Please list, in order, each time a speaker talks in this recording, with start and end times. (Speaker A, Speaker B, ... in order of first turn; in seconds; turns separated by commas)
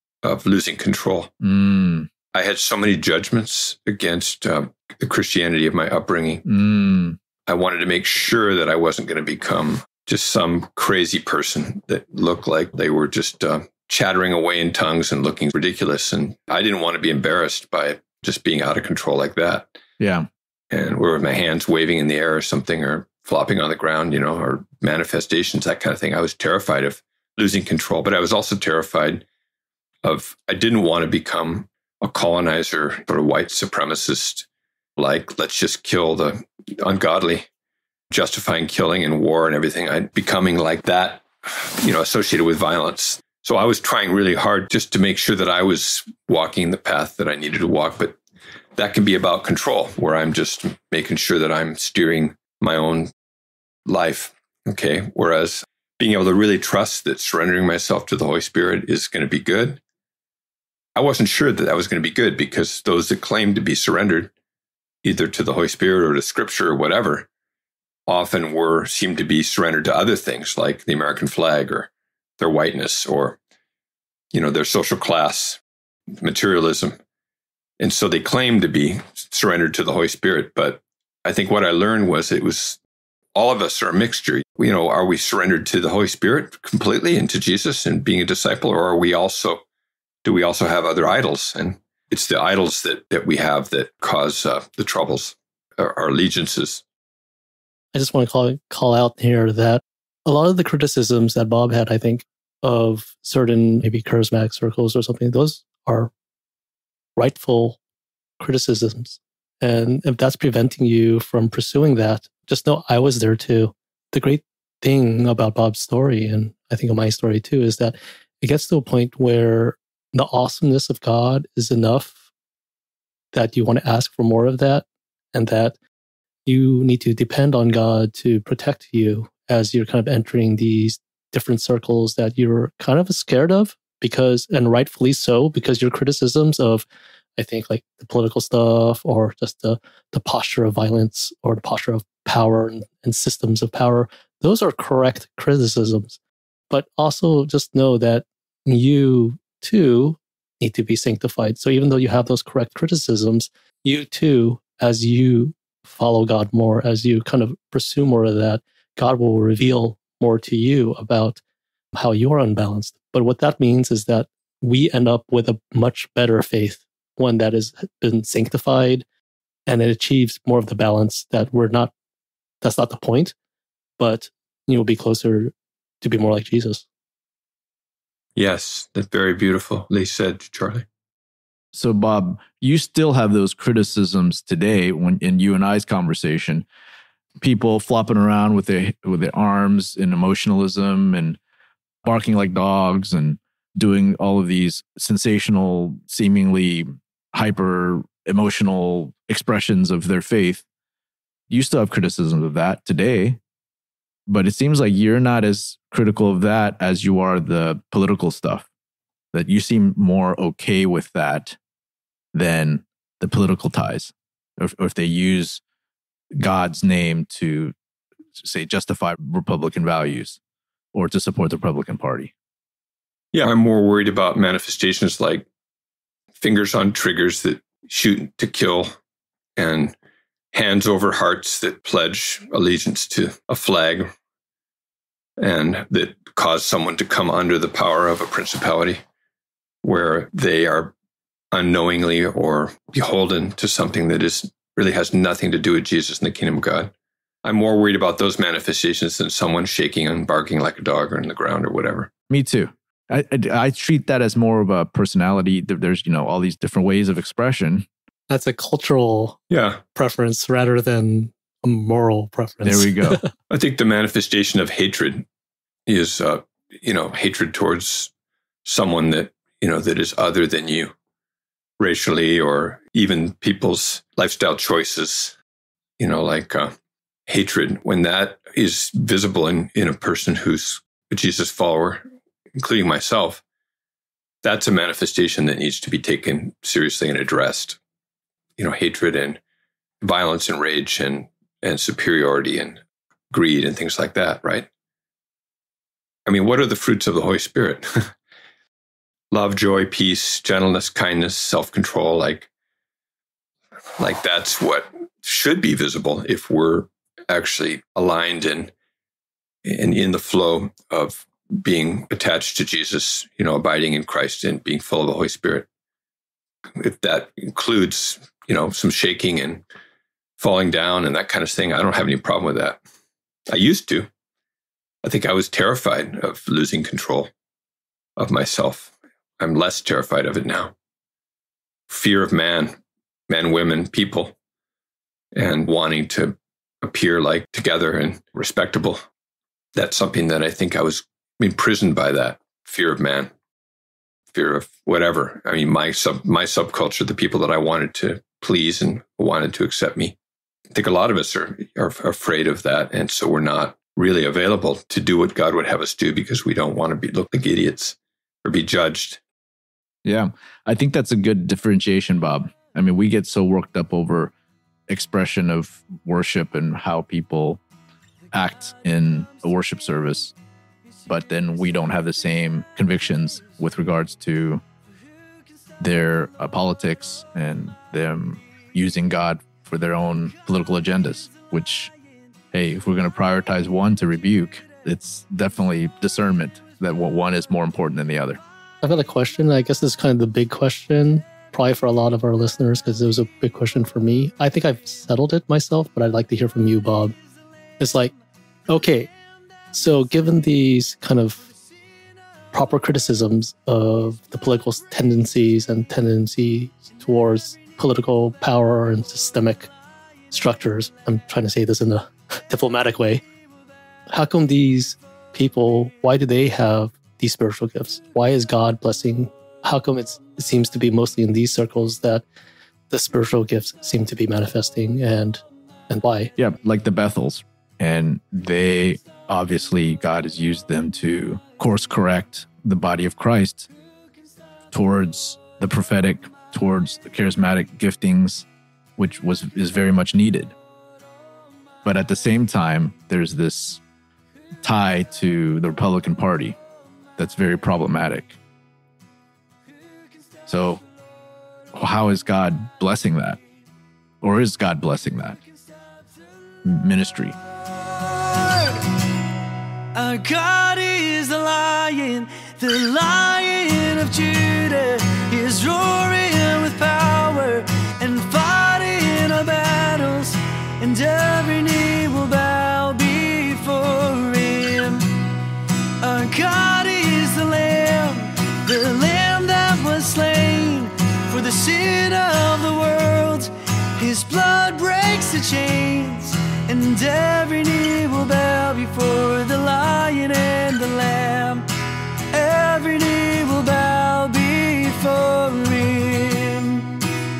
Speaker A: 0.2-1.3, Speaker B: 1.4-2.1, Speaker A: 2.3-6.4, Speaker B: 6.4-7.2, Speaker A: 7.5-19.8, Speaker B: 20.0-20.3, Speaker A: 20.7-29.2, Speaker A: 30.0-37.5, Speaker A: 38.1-48.2, Speaker A: 48.8-53.1, Speaker A: 53.9-59.8, Speaker A: 60.9-64.3, Speaker A: 65.0-67.3, Speaker A: 68.1-73.4, Speaker A: 74.3-75.6, Speaker A: 76.2-77.0, Speaker A: 77.8-82.8, Speaker A: 83.3-89.6, Speaker A: 90.2-96.8, Speaker C: 97.9-106.1, Speaker C: 107.2-107.8, Speaker C: 108.4-122.2, Speaker C: 123.3-125.8, Speaker C: 126.5-136.8, Speaker C: 137.4-146.2, Speaker C: 146.7-161.4, Speaker C: 161.9-169.0, Speaker C: 169.7-171.9, Speaker C: 172.6-173.3, Speaker C: 174.0-176.8, Speaker A: 178.3-180.8, Speaker B: 181.7-186.7, Speaker B: 187.4-191.4, Speaker B: 192.0-200.6, Speaker B: 201.5-203.4, Speaker B: 204.3-208.7, Speaker B: 209.3-211.6, Speaker B: 212.3-215.6, Speaker B: 216.3-217.7, Speaker B: 218.4-220.4, Speaker B: 220.9-222.3, Speaker A: 223.3-225.5, Speaker A: 226.4-228.9, Speaker A: 229.6-229.9, Speaker A: 230.5-234.1, Speaker A: 235.4-239.0, Speaker A: 239.8-240.9, Speaker A: 241.5-246.9, Speaker A: 247.4-252.1, Speaker B: 252.3-257.9, Speaker C: 258.3-259.4, Speaker A: 259.5-259.8, Speaker C: 259.9-263.3, Speaker B: 262.6-263.2, Speaker A: 263.5-265.2, Speaker A: 265.9-268.1, Speaker A: 268.6-270.9, Speaker A: 271.8-275.4, Speaker A: 276.0-276.7, Speaker A: 277.3-282.0, Speaker A: 282.6-283.4, Speaker A: 284.4-287.8, Speaker A: 288.6-289.4, Speaker A: 290.0-292.8, Speaker A: 293.3-294.7, Speaker A: 296.2-298.1, Speaker A: 299.3-302.5, Speaker A: 304.0-308.7, Speaker A: 309.6-315.7, Speaker A: 316.8-319.6, Speaker A: 320.4-322.8, Speaker A: 323.5-324.1, Speaker A: 325.0-327.3, Speaker A: 328.2-330.7, Speaker A: 331.9-332.7, Speaker A: 333.3-334.3, Speaker A: 335.3-339.0, Speaker A: 339.8-343.3, Speaker A: 344.3-350.1, Speaker A: 350.7-359.2, Speaker B: 360.0-364.3, Speaker B: 364.9-367.6, Speaker B: 368.3-370.3, Speaker B: 371.1-374.6, Speaker B: 375.8-381.9, Speaker B: 382.5-388.4, Speaker C: 388.8-397.1, Speaker C: 397.8-398.1, Speaker C: 398.7-399.1, Speaker C: 399.7-401.5, Speaker C: 402.5-409.7, Speaker C: 410.3-413.2, Speaker C: 414.1-422.2, Speaker C: 422.9-426.3, Speaker B: 426.4-433.7, Speaker B: 434.7-440.5, Speaker B: 441.8-443.8, Speaker B: 444.6-446.6, Speaker B: 447.2-448.4, Speaker B: 450.5-450.8, Speaker B: 451.7-453.4, Speaker B: 454.2-455.4, Speaker B: 456.6-457.4, Speaker D: 457.9-458.9, Speaker D: 459.9-475.2, Speaker D: 476.0-491.6, Speaker D: 492.3-496.9